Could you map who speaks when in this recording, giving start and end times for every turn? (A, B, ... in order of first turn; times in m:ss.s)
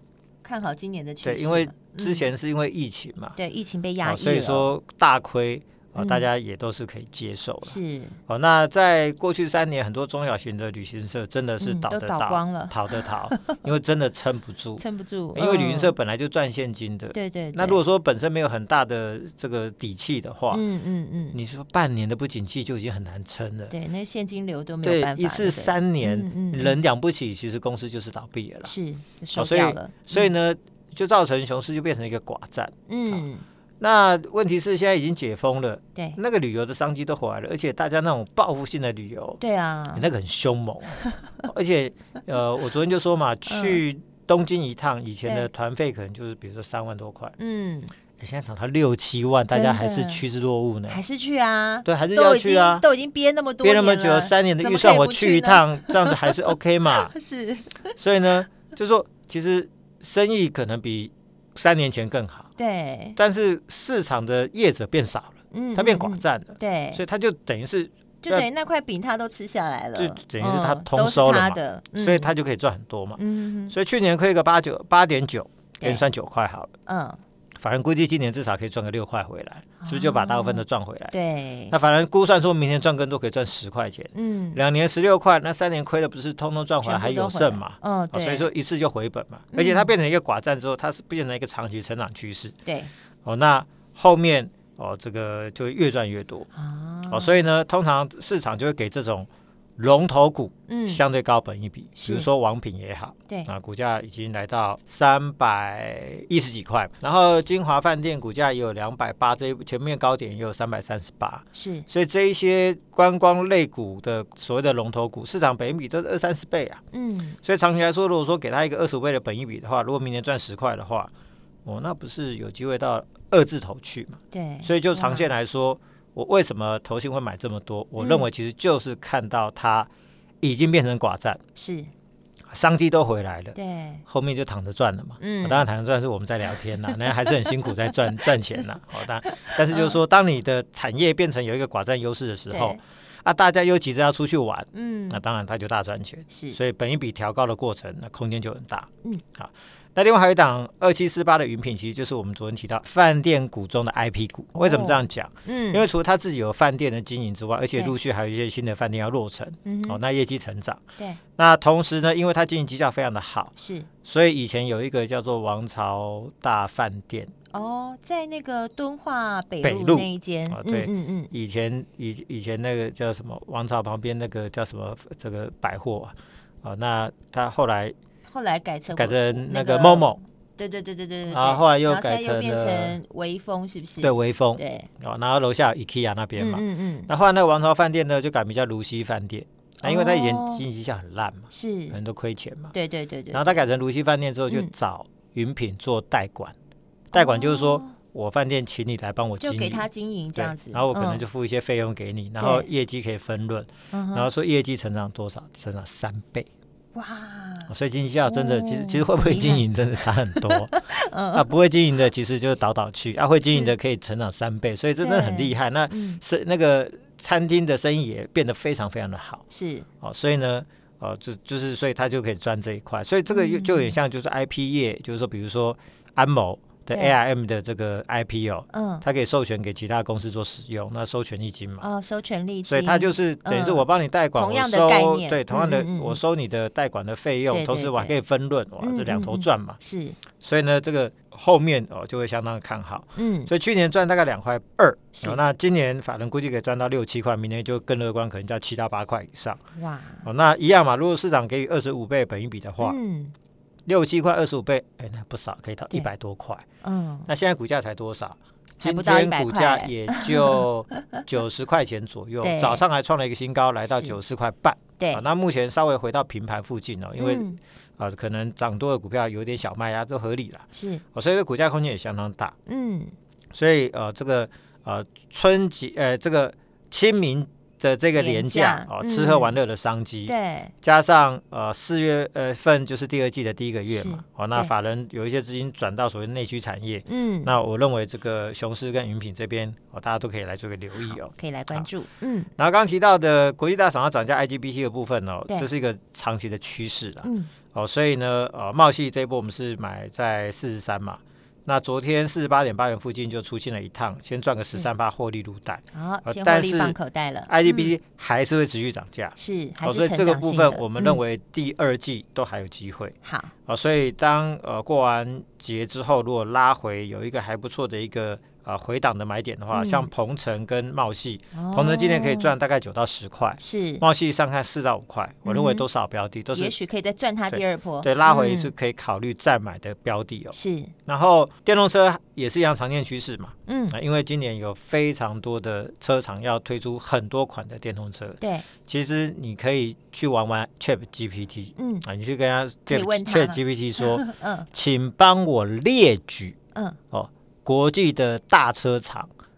0:00.4-0:02.3 A
0:01.2-0:03.4 B
0:03.3-0:04.7 A
0:04.0-0:20.6 B
0:06.0-0:06.3 A
0:07.6-0:08.2 A
0:11.6-0:12.8 A
0:14.8-0:15.9 A
0:17.1-0:17.8 A
0:20.5-0:21.4 A
0:21.3-0:23.7 B
0:23.7-0:26.8 A
0:24.8-0:28.7 B
0:28.6-0:30.3 A
0:29.3-0:33.2 B
0:32.9-0:33.4 A
0:33.8-0:39.4 B
0:39.4-0:40.1 A
0:39.9-0:47.3 B
0:43.5-0:43.8 A
0:47.4-0:47.9 A
0:48.2-0:51.0 B
0:49.5-0:50.2 A
0:50.9-0:57.9 A
0:51.8-0:52.8 B
0:53.6-0:57.1 B
0:58.0-1:02.5 B
1:02.6-1:03.2 A
1:03.2-1:08.5 B
1:05.5-1:07.0 A
1:08.2-1:12.3 A
1:09.9-1:16.7 B
1:13.2-1:13.7 A
1:15.8-1:16.0 A
1:16.8-1:17.2 A
1:17.6-1:21.1 B
1:19.8-1:21.7 A
1:21.7-1:32.5 B
1:24.1-1:24.6 A
1:26.8-1:28.5 A
1:29.5-1:29.9 A
1:32.6-1:32.9 A
1:33.2-1:36.5 B
1:36.5-1:37.4 A
1:37.1-1:56.8 B
1:40.7-1:41.0 A
1:41.9-1:42.3 A
1:51.5-1:51.9 A
1:56.9-1:57.4 A
1:57.4-2:01.1 B
2:01.6-2:09.9 B
2:04.3-2:05.3 A
2:08.0-2:08.3 A
2:10.4-2:11.4 B
2:11.6-2:11.9 A
2:12.5-2:40.8 B
2:13.5-2:14.0 A
2:15.2-2:15.6 A
2:18.2-2:18.6 A
2:19.3-2:20.0 A
2:22.5-2:22.8 A
2:24.7-2:25.2 A
2:26.3-2:26.6 A
2:34.6-2:35.8 A
2:39.6-2:40.0 A
2:41.4-2:47.3 B
2:43.6-2:43.9 A
2:47.5-2:51.3 A
2:49.6-2:57.9 B
2:58.3-3:04.9 A
2:58.9-3:00.2 B
3:01.3-3:03.0 B
3:04.0-3:12.7 B
3:06.4-3:07.1 A
3:09.8-3:10.6 A
3:11.5-3:12.0 A
3:12.7-3:13.6 A
3:13.3-3:16.5 B
3:17.1-3:26.5 B
3:17.1-3:17.9 A
3:19.4-3:21.2 A
3:22.4-3:22.7 A
3:23.9-3:24.3 A
3:26.9-3:27.7 A
3:27.7-3:30.8 B
3:28.2-3:31.4 A
3:31.3-3:39.4 B
3:33.4-3:33.8 A
3:35.0-3:36.2 A
3:39.5-3:39.9 A
3:40.0-3:51.9 B
3:43.3-3:43.9 A
3:48.7-3:49.0 A
3:51.8-3:56.2 A
3:52.6-3:59.8 B
3:57.5-3:58.2 A
3:58.8-4:00.2 A
4:00.4-4:09.6 B
4:03.2-4:03.5 A
4:09.8-4:10.2 A
4:10.2-4:13.0 B
4:12.8-4:13.3 A
4:13.9-4:16.6 B
4:16.8-4:17.3 A
4:17.3-4:32.5 B
4:18.8-4:21.0 A
4:22.4-4:22.8 A
4:23.9-4:24.2 A
4:27.2-4:27.6 A
4:30.7-4:31.0 A
4:32.7-4:33.1 A
4:33.5-4:51.9 B
4:38.1-4:39.5 A
4:40.2-4:40.7 A
4:43.9-4:44.7 A
4:47.0-4:47.5 A
4:51.0-4:52.5 A
4:52.6-5:13.2 B
4:57.2-4:57.5 A
5:05.9-5:07.9 A
5:09.4-5:11.2 A
5:13.2-5:13.5 A
5:13.7-5:26.8 B
5:19.7-5:20.1 A
5:21.5-5:22.5 A
5:23.6-5:24.0 A
5:25.4-5:25.9 A
5:26.5-5:28.7 A
5:27.5-5:46.6 B
5:30.5-5:30.9 A
5:33.6-5:34.0 A
5:38.4-5:38.6 A
5:41.8-5:42.0 A
5:42.9-5:44.7 A
5:46.7-5:47.0 A
5:47.1-5:49.3 B